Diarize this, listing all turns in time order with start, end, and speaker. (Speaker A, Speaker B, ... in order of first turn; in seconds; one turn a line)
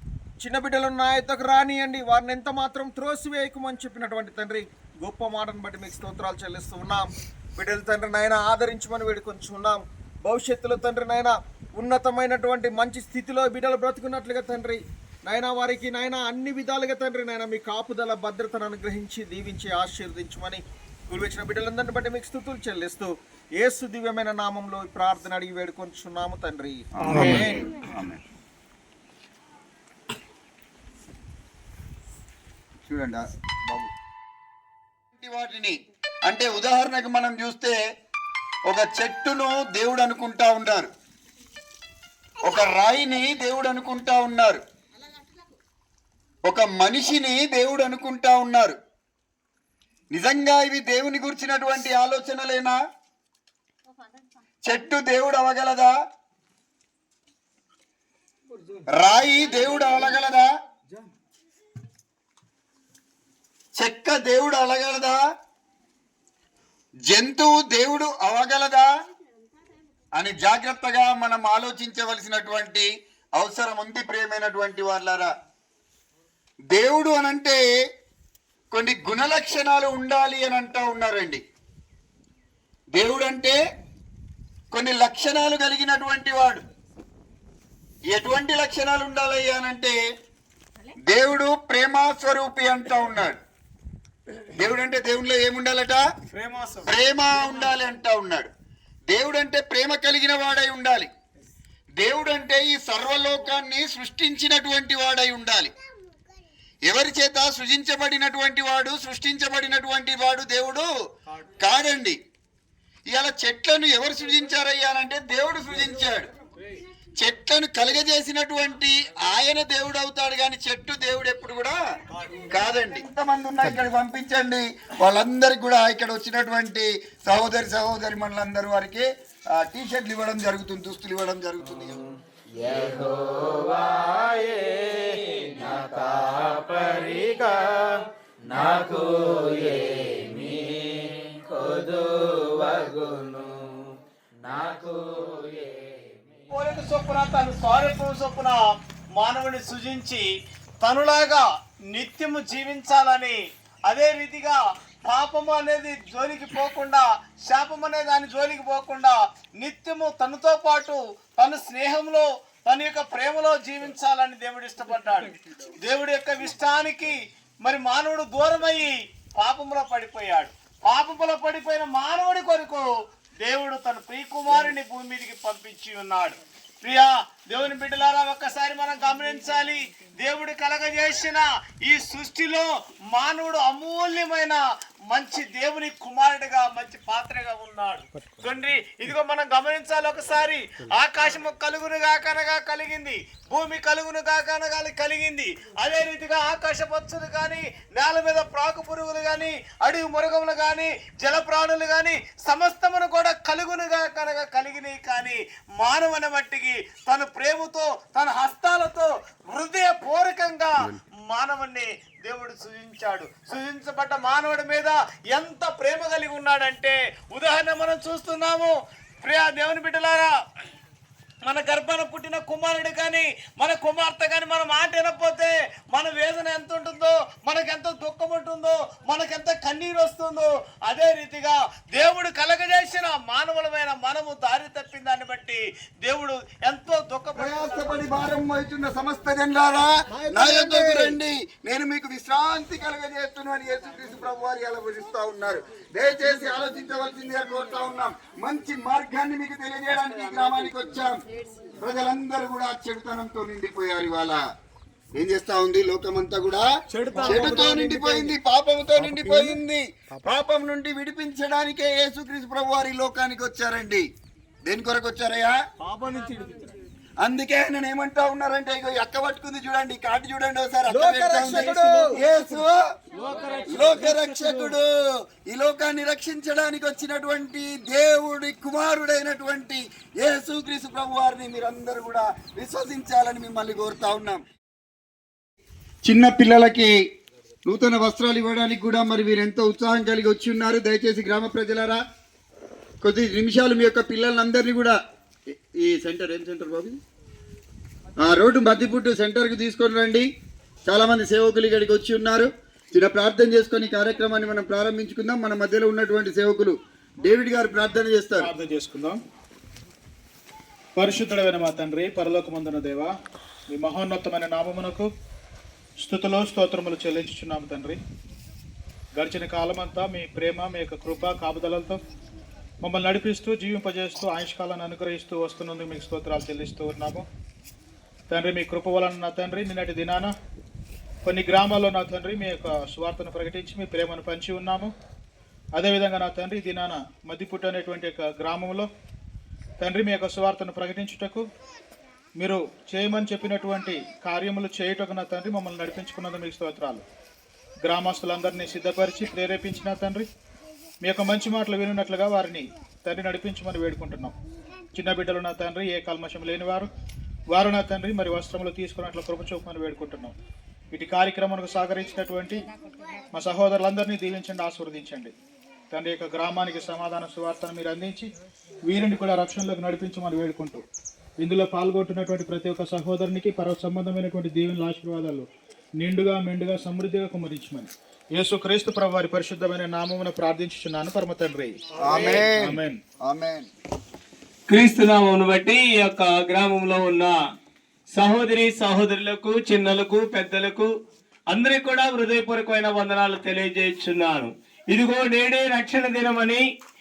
Speaker A: 0.4-27.6
Speaker B: 27.0-28.2
Speaker B: 32.9-33.9
Speaker B: 35.2-35.7
Speaker B: 36.3-37.8
Speaker B: 38.7-40.9
Speaker B: 42.4-44.6
Speaker B: 46.5-48.8
Speaker B: 50.1-52.8
Speaker B: 54.6-55.9
Speaker B: 59.0-60.5
Speaker B: 63.8-65.2
Speaker B: 67.1-68.9
Speaker B: 70.2-75.3
Speaker B: 76.7-77.6
Speaker B: 78.7-81.4
Speaker B: 83.0-83.6
Speaker B: 84.7-86.6
Speaker B: 88.1-90.0
Speaker B: 91.1-93.4
Speaker B: 94.5-96.0
Speaker B: 96.8-98.5
Speaker B: 99.1-101.1
Speaker B: 102.0-105.7
Speaker B: 106.9-110.9
Speaker B: 111.6-112.2
Speaker B: 113.1-116.3
Speaker B: 117.2-121.8
Speaker B: 122.5-132.0
Speaker C: 132.6-146.5
Speaker D: 146.5-148.6
Speaker D: 149.2-150.2
Speaker D: 150.8-153.4
Speaker D: 153.9-172.9
Speaker D: 173.4-184.6
Speaker D: 185.1-220.3
Speaker E: 188.1-188.5
Speaker D: 221.4-238.0
Speaker B: 237.4-251.1
Speaker A: 240.2-241.2
Speaker B: 251.8-254.4
Speaker B: 255.2-256.7
Speaker A: 257.0-258.1
Speaker B: 257.2-264.0
Speaker B: 264.7-265.5
Speaker A: 265.9-266.6
Speaker B: 267.2-272.8
Speaker A: 270.9-272.2
Speaker B: 273.7-274.9
Speaker B: 275.5-284.4
Speaker B: 286.1-286.9
Speaker B: 287.7-292.0
Speaker B: 293.0-294.9
Speaker B: 295.8-297.0
Speaker B: 298.2-300.3
Speaker B: 300.9-308.5
Speaker E: 308.4-309.2
Speaker E: 311.0-313.1
Speaker E: 313.7-315.1
Speaker E: 316.0-318.0
Speaker E: 319.1-322.0
Speaker E: 322.8-327.2
Speaker E: 328.3-330.3
Speaker E: 331.2-334.9
Speaker E: 335.8-338.9
Speaker E: 339.8-341.4
Speaker E: 342.4-347.0
Speaker E: 347.8-350.3
Speaker E: 351.0-354.3
Speaker E: 354.9-356.9
Speaker E: 357.5-360.3
Speaker E: 360.9-362.6
Speaker E: 363.3-365.3
Speaker E: 365.9-368.3
Speaker E: 368.9-370.8
Speaker E: 371.4-375.5
Speaker E: 376.0-381.8
Speaker B: 382.0-383.7
Speaker D: 382.1-382.4
Speaker E: 382.5-383.0
Speaker D: 384.7-387.4
Speaker D: 388.1-390.9
Speaker D: 391.5-396.6